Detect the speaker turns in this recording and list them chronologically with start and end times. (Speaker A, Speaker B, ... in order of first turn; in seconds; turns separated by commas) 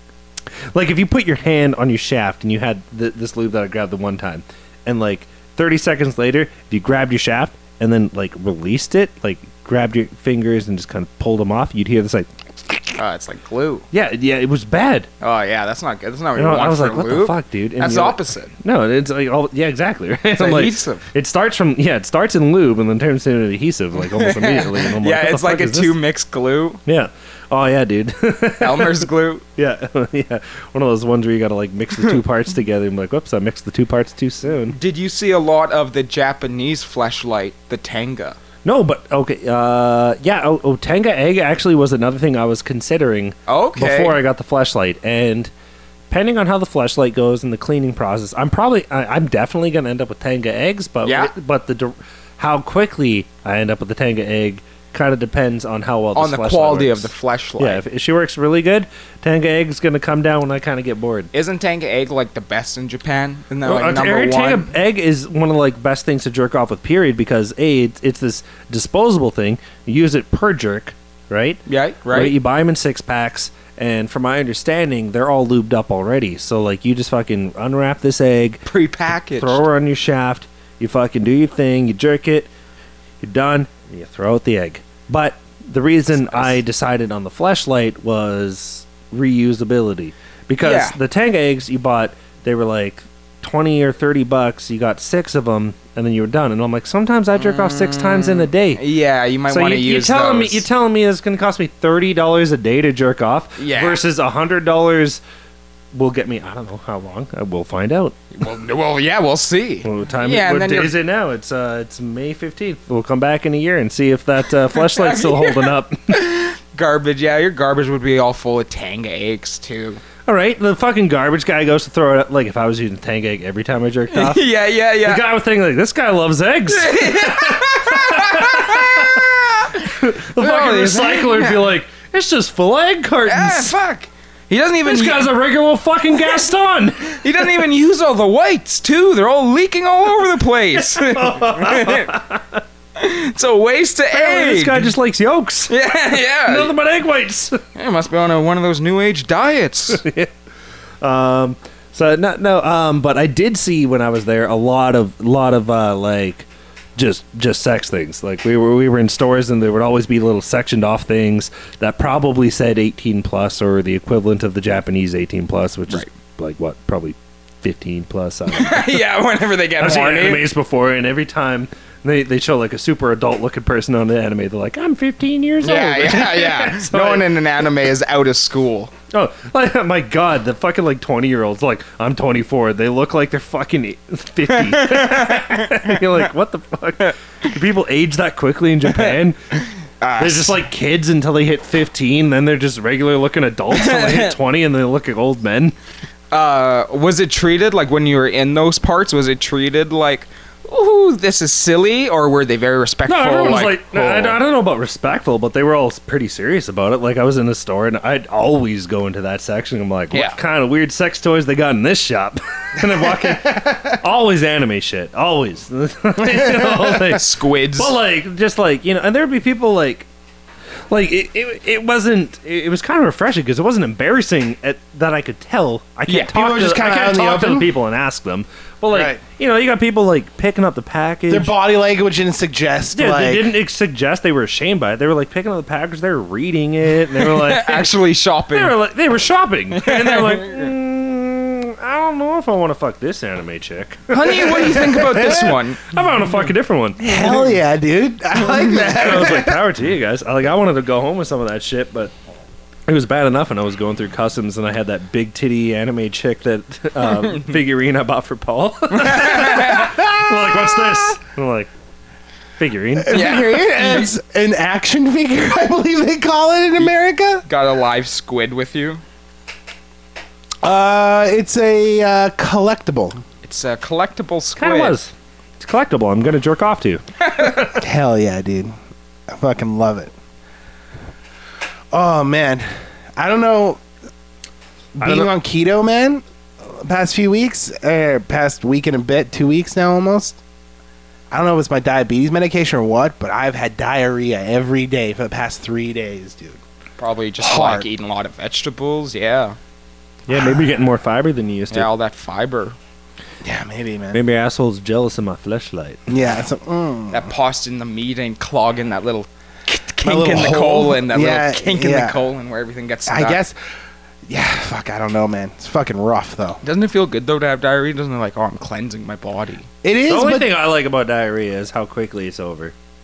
Speaker A: 0.7-13.0, Speaker B: 13.0-13.8, Speaker A: 13.9-15.1, Speaker B: 15.2-18.5, Speaker A: 16.3-26.0, Speaker B: 20.4-21.1, Speaker B: 24.0-26.8, Speaker A: 26.9-34.8, Speaker B: 28.6-29.4, Speaker B: 34.7-38.4, Speaker A: 38.6-45.5, Speaker B: 43.5-44.2, Speaker A: 46.1-61.3, Speaker B: 51.0-51.3, Speaker B: 56.1-57.8, Speaker B: 61.3-64.7, Speaker A: 63.6-78.6, Speaker B: 71.7-72.3, Speaker B: 78.7-79.6, Speaker A: 79.4-82.5, Speaker A: 83.2-98.8, Speaker B: 90.6-91.0, Speaker B: 97.3-100.6, Speaker A: 99.5-105.2, Speaker B: 103.6-104.0, Speaker A: 105.9-108.2, Speaker B: 108.3-110.9, Speaker A: 109.8-116.2, Speaker B: 114.7-120.0, Speaker A: 120.3-124.5, Speaker B: 124.1-125.2, Speaker A: 125.0-129.2, Speaker B: 126.7-131.7, Speaker A: 129.8-133.7, Speaker B: 133.2-135.3, Speaker A: 134.8-137.2, Speaker B: 137.2-142.1, Speaker A: 140.7-142.6, Speaker B: 142.9-144.9, Speaker A: 144.1-147.6, Speaker B: 145.7-146.7, Speaker B: 147.7-150.0, Speaker A: 149.9-150.3, Speaker A: 151.0-169.0, Speaker B: 168.5-170.5, Speaker A: 169.8-177.3, Speaker B: 175.6-178.9, Speaker A: 179.1-189.4, Speaker B: 184.5-186.0, Speaker B: 190.0-190.6, Speaker A: 190.2-195.7, Speaker B: 193.7-194.3, Speaker B: 196.3-204.4, Speaker A: 203.1-220.1, Speaker B: 210.1-210.4, Speaker C: 216.2-216.8, Speaker B: 216.9-218.0, Speaker A: 220.9-231.6, Speaker C: 226.3-227.7, Speaker C: 228.9-229.2, Speaker C: 231.3-233.5, Speaker A: 232.9-237.9, Speaker B: 237.1-238.8, Speaker A: 238.5-247.6, Speaker B: 239.7-240.7, Speaker B: 244.1-245.9, Speaker C: 244.5-245.6, Speaker C: 247.0-249.6, Speaker A: 248.6-252.1, Speaker A: 252.9-261.7, Speaker B: 258.9-260.1, Speaker A: 262.6-263.3, Speaker C: 263.0-267.4, Speaker B: 263.1-264.1, Speaker B: 267.5-269.0, Speaker C: 270.6-273.2, Speaker B: 273.4-274.9, Speaker A: 274.6-277.7, Speaker C: 277.7-278.7, Speaker C: 279.3-280.1, Speaker C: 281.9-282.6, Speaker C: 283.2-283.8, Speaker C: 285.0-290.4, Speaker A: 285.0-285.3, Speaker C: 291.3-296.6, Speaker B: 297.0-299.6, Speaker C: 297.4-297.9, Speaker A: 300.3-301.9, Speaker C: 300.3-300.6, Speaker B: 301.7-302.8, Speaker C: 303.4-304.2, Speaker A: 304.1-306.1, Speaker C: 306.1-307.3, Speaker B: 307.1-313.4, Speaker C: 310.0-312.2, Speaker C: 313.1-313.5, Speaker C: 314.3-316.6, Speaker B: 316.6-319.7, Speaker C: 319.8-320.5, Speaker A: 320.1-322.7